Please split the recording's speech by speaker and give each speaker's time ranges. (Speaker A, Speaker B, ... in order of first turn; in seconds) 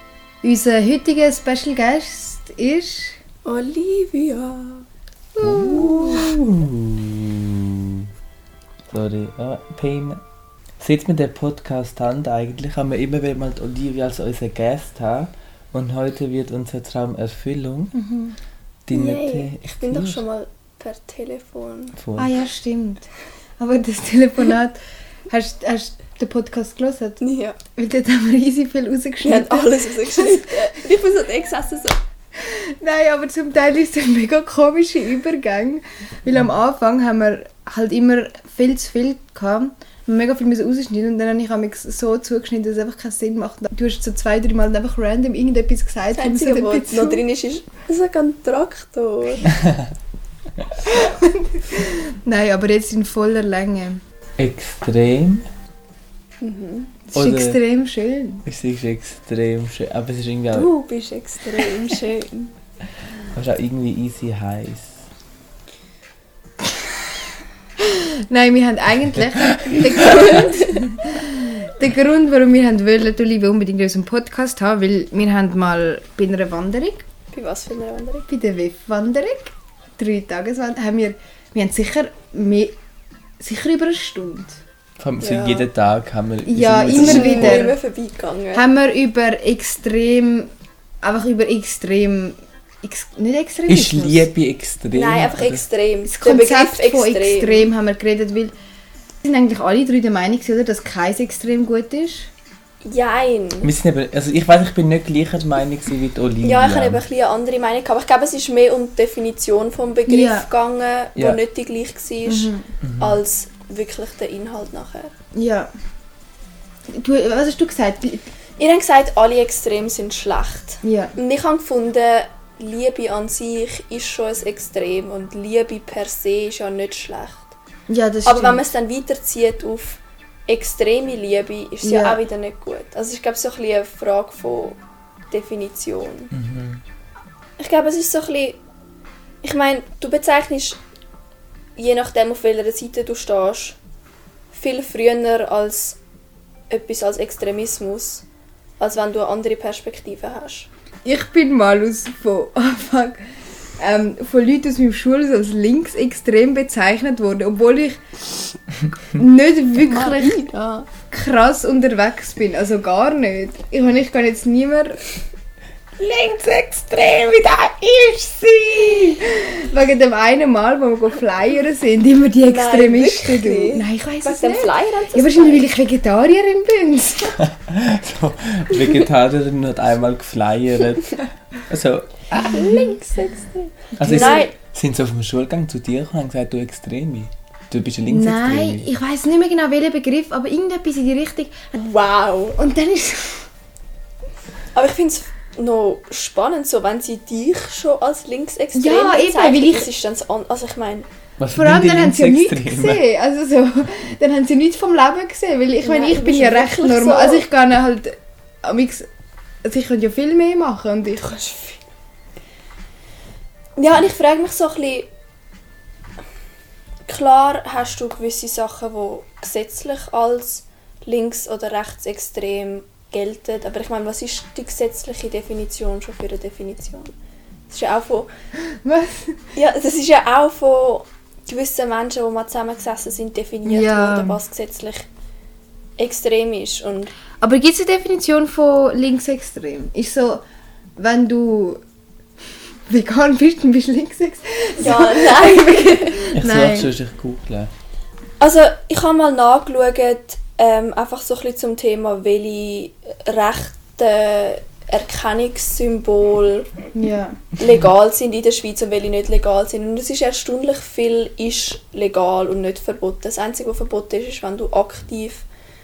Speaker A: 0.4-3.2, 5.3-6.3, 17.9-18.4, 22.2-24.8, 25.3-27.2, 27.7-30.8, 32.4-47.2, 50.9-54.0, 57.1-58.4, 67.8-77.0, 78.3-82.7, 83.4-84.6, 86.5-87.7, 88.5-90.5, 91.0-94.2, 96.1-98.5, 99.2-102.3, 110.1-110.5, 112.2-112.7, 115.3-115.7, 116.9-118.3, 120.8-121.1, 127.9-128.7, 131.8-132.2, 151.0-158.0, 159.1-160.3, 161.1-165.0, 166.0-177.4, 182.4-184.5, 188.1-191.7, 192.6-193.5, 198.7-199.9, 201.5-209.1, 209.6-211.4, 228.7-229.5, 233.6-234.4, 237.4-240.4, 241.0-241.8, 242.9-246.9, 256.9-257.4
Speaker B: 3.4-4.8, 18.9-22.0, 27.2-27.6, 29.2-32.0, 46.1-49.5, 56.4-56.9, 60.5-62.5, 70.1-70.5, 77.3-78.3, 85.2-85.6, 86.9-88.6, 94.9-97.7, 102.8-103.7, 106.4-115.1, 118.6-127.5, 128.2-134.8, 135.3-136.3, 137.6-138.6, 139.4-140.8, 141.8-143.8, 144.5-146.0, 146.7-148.2, 148.8-150.7, 159.8-160.9, 172.4-175.7, 182.3-184.5, 191.7-192.6, 194.7-201.1, 205.8-207.4, 211.2-211.8, 213.8-215.1, 217.1-227.1, 227.7-228.3, 229.5-235.1, 236.0-237.1, 244.8-246.3, 248.4-256.7, 257.6-265.5
Speaker C: 5.4-8.1, 8.9-10.2, 10.8-17.9, 18.9-20.2, 21.9-22.3, 54.4-55.5, 57.1-57.6, 58.4-60.7, 63.3-65.0, 69.3-70.4, 85.0-87.7, 93.7-95.6, 103.6-107.0, 112.8-113.2, 136.3-136.8, 177.4-182.7, 184.0-188.9, 201.4-203.0, 246.3-247.7